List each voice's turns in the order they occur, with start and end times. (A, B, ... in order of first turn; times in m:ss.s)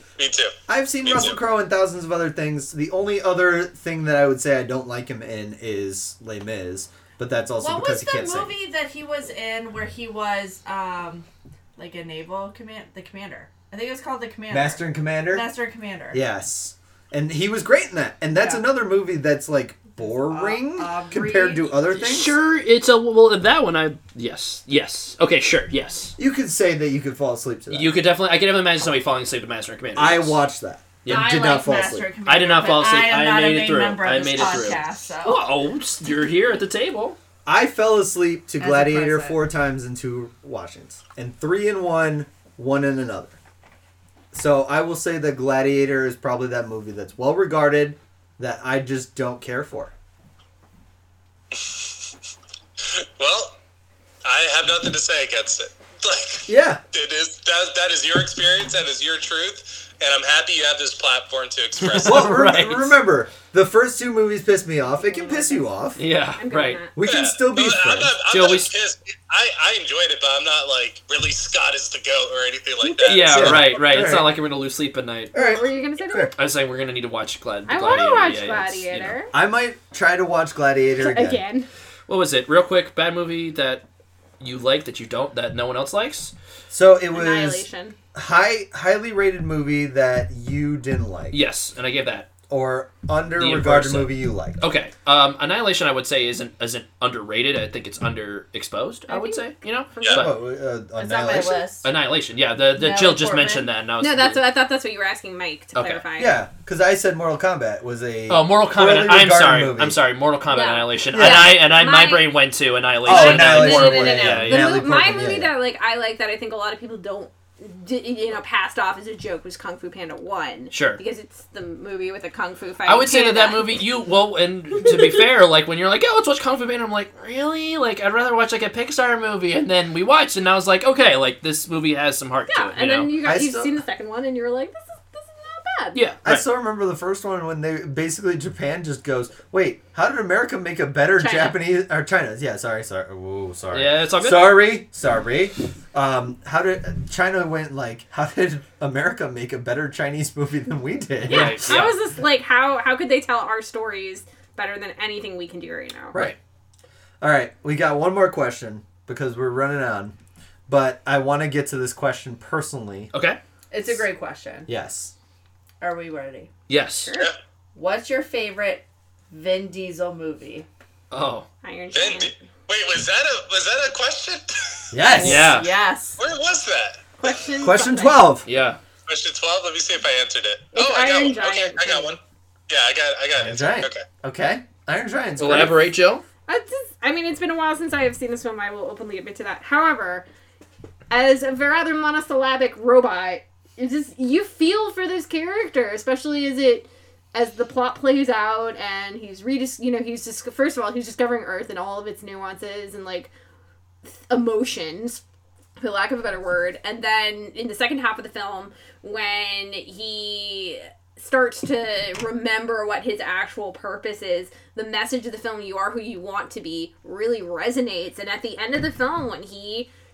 0:00.2-0:01.4 A
0:00.7-0:08.5 B
0:07.6-0:16.2 C
0:14.5-0:15.5 B
0:16.1-0:22.4 B
0:18.4-0:18.6 C
0:20.0-0:21.8 C
0:21.9-0:26.1 D
0:26.2-0:27.9 B
0:27.7-0:30.4 D
0:29.9-0:32.1 B
0:31.0-0:31.3 D
0:31.0-0:35.4 C
0:32.2-0:37.2 D
0:37.4-0:43.4 B
0:38.6-0:39.4 C
0:44.3-0:49.9 B
0:51.5-0:51.9 A
0:52.8-0:53.6 A
0:54.2-1:02.4 A
0:56.5-0:56.8 B
1:01.8-1:02.9 D
1:02.0-1:06.0 B
1:05.0-1:05.6 E
1:06.0-1:06.8 D
1:06.4-1:06.9 E
1:06.9-1:08.1 B
1:07.0-1:13.5 A
1:08.3-1:08.7 D
1:12.8-1:13.6 E
1:13.0-1:15.3 D
1:13.3-1:14.3 B
1:15.3-1:16.3 B
1:15.3-1:16.3 E
1:16.4-1:19.2 D
1:17.7-1:19.3 E
1:19.3-1:21.4 B
1:21.0-1:21.7 E
1:22.1-1:23.8 D
1:24.4-1:26.3 D
1:26.7-1:31.4 B
1:27.1-1:28.0 E
1:31.3-1:32.3 D
1:32.5-1:34.6 B
1:33.4-1:40.3 D
1:39.1-1:40.2 E
1:40.0-1:40.2 A
1:40.1-1:41.6 B
1:41.0-1:41.9 C
1:41.8-1:44.4 D
1:42.7-1:43.7 C
1:44.0-1:46.4 E
1:45.7-1:46.0 D
1:46.2-1:50.0 B
1:48.3-1:54.7 D
1:50.5-1:52.3 E
1:51.1-1:51.6 B
1:53.0-1:55.5 B
1:53.0-2:03.8 E
2:00.7-2:01.0 D
2:02.8-2:13.1 D
2:12.5-2:16.0 E
2:13.2-2:13.8 B
2:15.9-2:16.4 D
2:16.2-2:31.9 B
2:21.2-2:21.6 E
2:23.7-2:24.7 D
2:31.2-2:32.0 D
2:31.3-2:36.3 E
2:37.2-2:40.1 B
2:40.7-2:43.1 B
2:43.1-2:43.4 D
2:43.7-2:44.7 C
2:44.7-2:45.1 B
2:45.8-2:46.5 C
2:46.7-2:47.1 D
2:47.0-2:47.3 E
2:47.7-2:50.7 C
2:51.1-2:51.5 D
2:51.6-2:52.4 E
2:51.9-2:54.9 A
2:54.9-2:55.5 B
2:55.1-2:56.2 C
2:55.2-2:55.7 D
2:56.2-2:57.1 A
2:57.2-2:58.2 C
2:57.6-2:58.5 B
2:57.6-2:58.2 E
2:58.4-2:58.8 D
2:59.1-3:04.0 A
3:00.7-3:02.1 E
3:03.4-3:05.9 B
3:05.4-3:06.2 D
3:06.5-3:10.2 E
3:11.1-3:23.3 E
3:24.3-3:25.2 E
3:25.8-3:39.9 E